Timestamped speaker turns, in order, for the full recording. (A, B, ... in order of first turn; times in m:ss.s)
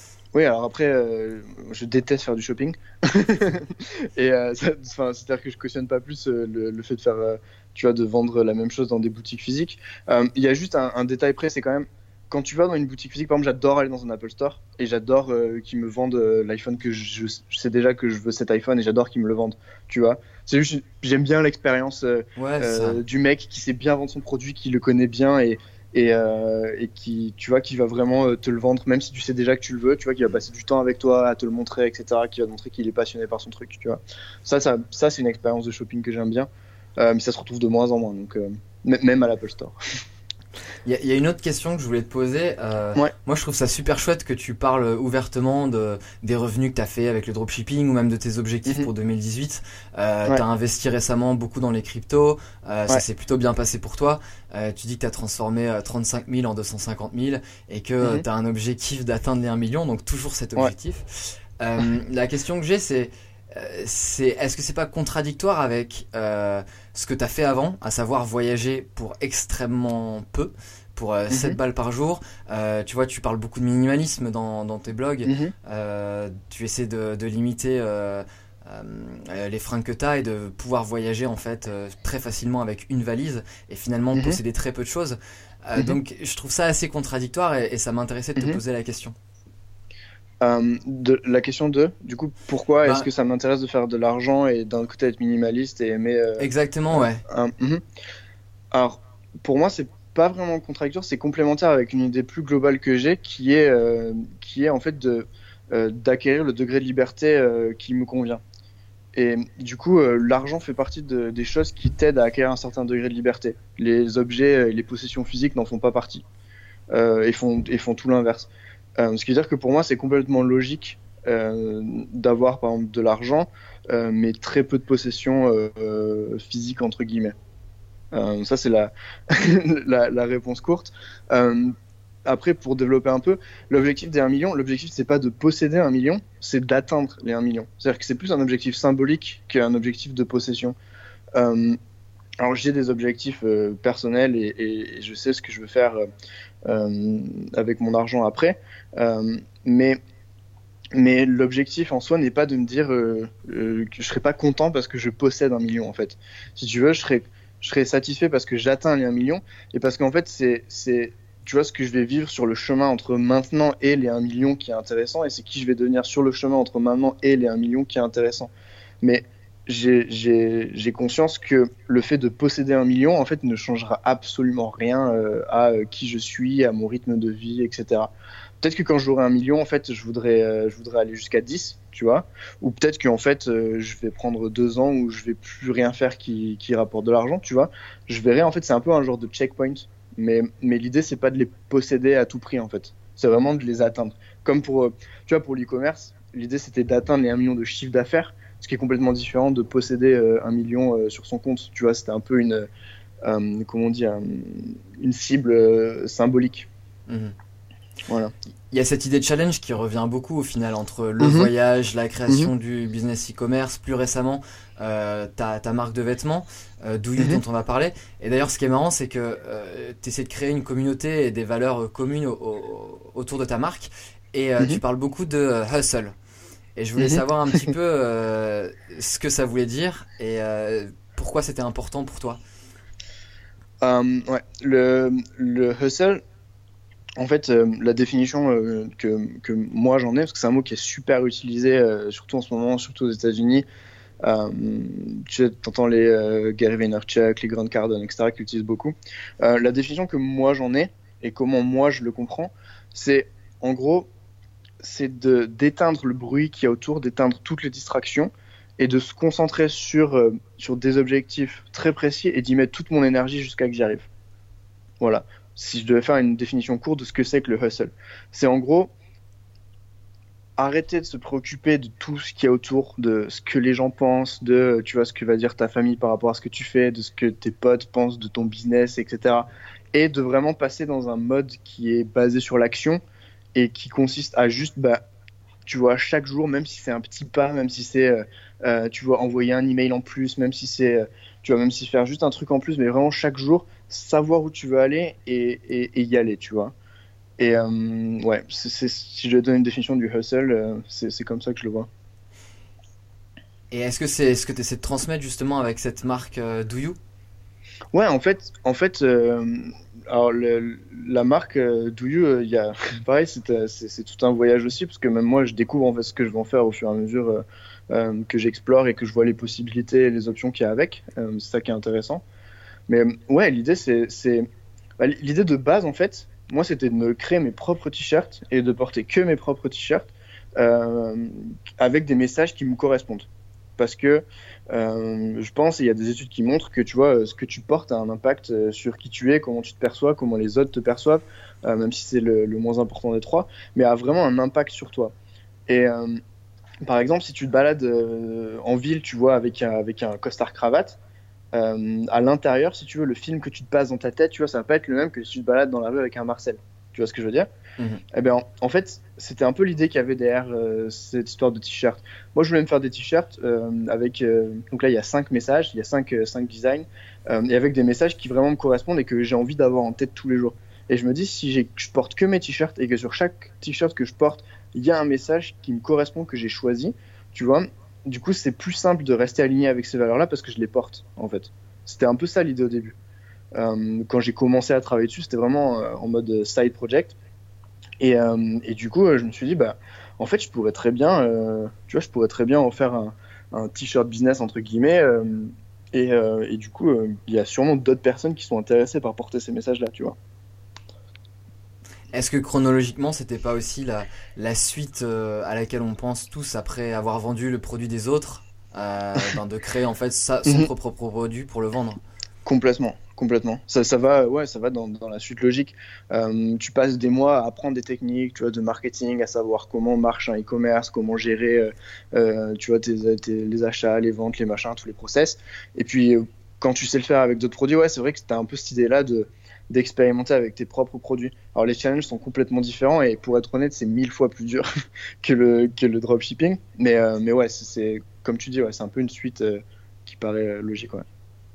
0:00.3-0:39.8 A
0:22.4-0:23.0 B
0:40.8-1:29.2 B
1:11.3-1:11.6 A
1:15.3-1:15.5 A
1:24.1-1:24.4 A
1:30.4-1:37.8 A
1:36.4-1:37.2 B
1:38.7-1:48.4 A
1:49.2-1:56.2 A
1:56.9-2:07.4 A
2:08.1-2:11.8 A
2:12.3-2:20.8 A
2:21.4-2:21.8 A
2:22.4-2:26.1 A
2:26.6-2:30.0 A
2:30.9-2:48.5 A
2:49.0-3:22.7 A
3:23.2-3:26.7 A
3:27.1-3:27.4 B
3:28.1-3:28.3 A
3:28.7-3:46.2 B
3:31.2-3:31.5 A
3:46.8-3:52.4 B
3:47.0-3:47.7 A
3:53.8-3:56.2 A
3:57.2-4:03.6 A
4:04.2-4:14.1 A
4:14.8-4:24.1 A
4:25.0-4:28.9 A
4:30.6-4:43.0 A
4:43.6-4:45.0 A
4:45.7-4:56.7 A
4:57.4-5:01.9 A
5:03.7-5:07.0 B
5:07.9-5:22.2 A
5:22.9-5:24.5 A
5:25.0-5:45.1 A
5:45.7-5:46.2 A
5:46.8-5:51.0 A
5:51.5-5:57.5 A
5:57.8-5:58.0 B
5:58.1-6:23.0 A
6:23.6-6:27.2 A
6:28.0-6:40.2 A
6:42.1-6:52.0 B
6:52.4-7:14.7 A
7:15.2-7:21.0 A